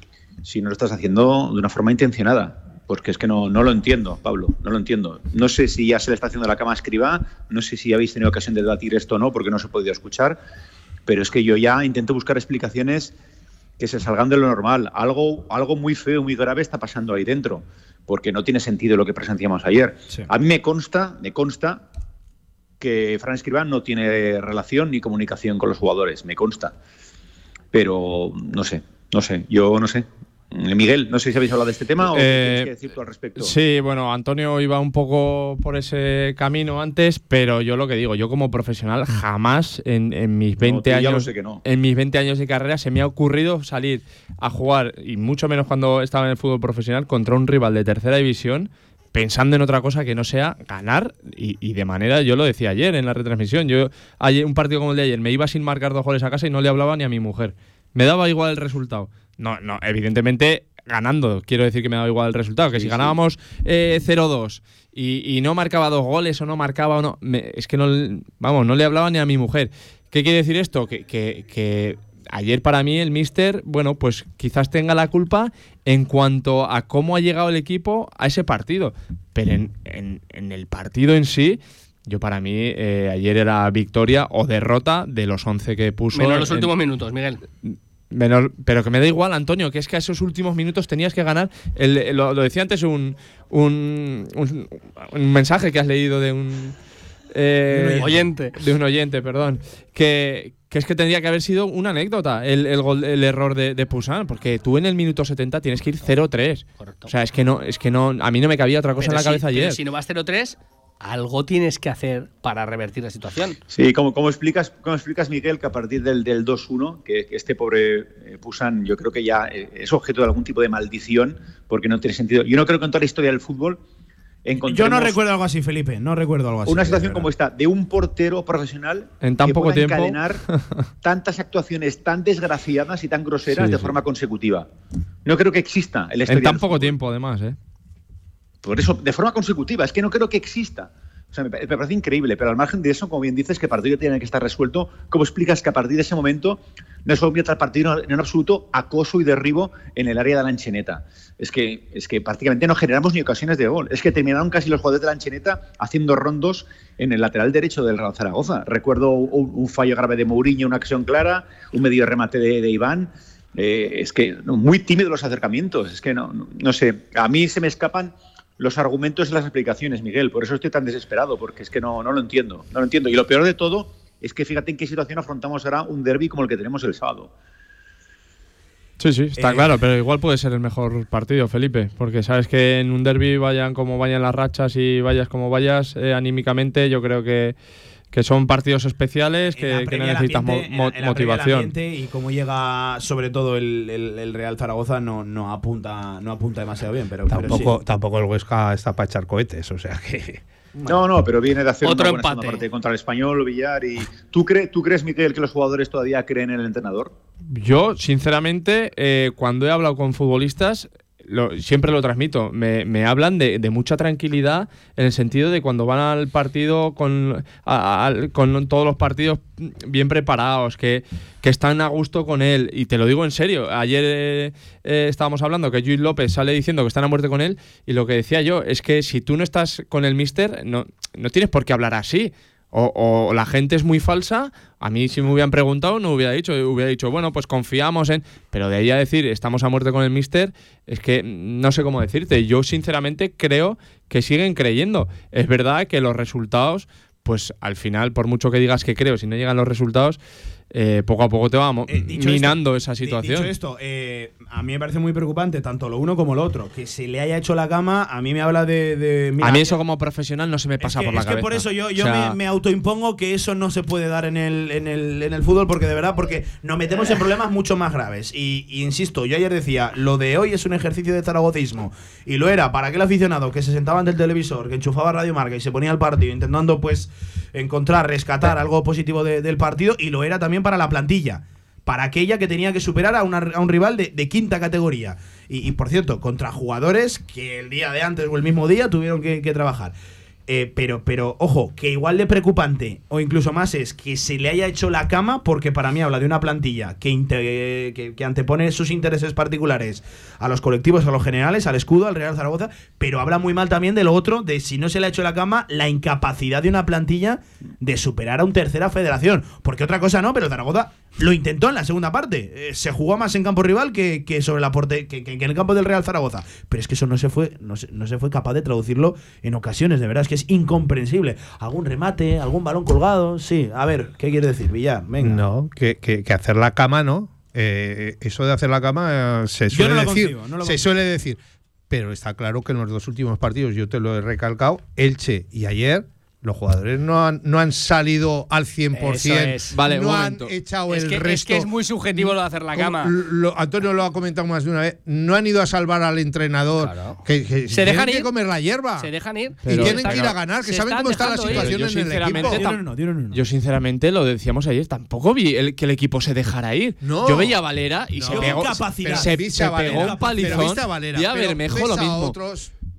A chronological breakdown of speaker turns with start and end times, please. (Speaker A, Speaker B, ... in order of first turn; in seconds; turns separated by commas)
Speaker A: 0.4-10.4, Speaker A: 11.1-13.1, Speaker A: 13.8-21.8, Speaker A: 22.8-26.7, Speaker A: 27.7-33.5, Speaker B: 32.1-32.7, Speaker B: 33.4-86.7, Speaker A: 40.6-41.6, Speaker A: 62.8-63.1, Speaker C: 86.1-87.4, Speaker B: 87.6-96.8, Speaker B: 97.3-109.8, Speaker D: 97.7-98.1, Speaker C: 98.0-98.5, Speaker C: 106.8-107.1, Speaker C: 109.0-113.6, Speaker A: 113.7-123.8, Speaker A: 124.4-125.2, Speaker D: 124.7-127.3, Speaker A: 126.7-130.4, Speaker B: 129.2-130.6, Speaker A: 131.0-134.7, Speaker B: 133.5-133.9, Speaker A: 135.2-136.9, Speaker B: 136.3-137.6, Speaker A: 138.6-177.3, Speaker B: 179.0-187.5, Speaker D: 179.3-179.7, Speaker B: 188.1-191.7, Speaker D: 189.5-197.8, Speaker E: 197.3-200.4, Speaker A: 200.9-207.1, Speaker C: 201.8-202.6, Speaker B: 207.5-250.2, Speaker B: 250.7-253.5, Speaker D: 251.9-259.8, Speaker B: 259.4-262.4, Speaker D: 260.8-289.9, Speaker D: 290.5-325.4, Speaker E: 325.2-331.4, Speaker D: 329.7-330.9, Speaker E: 331.9-349.1, Speaker C: 338.9-339.8, Speaker B: 339.7-340.5, Speaker C: 340.9-343.1, Speaker C: 346.8-348.3, Speaker C: 349.0-351.7, Speaker B: 349.6-350.2, Speaker E: 349.7-352.6, Speaker B: 351.5-352.8, Speaker D: 352.4-353.4, Speaker B: 353.3-362.4, Speaker E: 357.0-357.6, Speaker E: 358.1-362.7, Speaker D: 358.3-360.7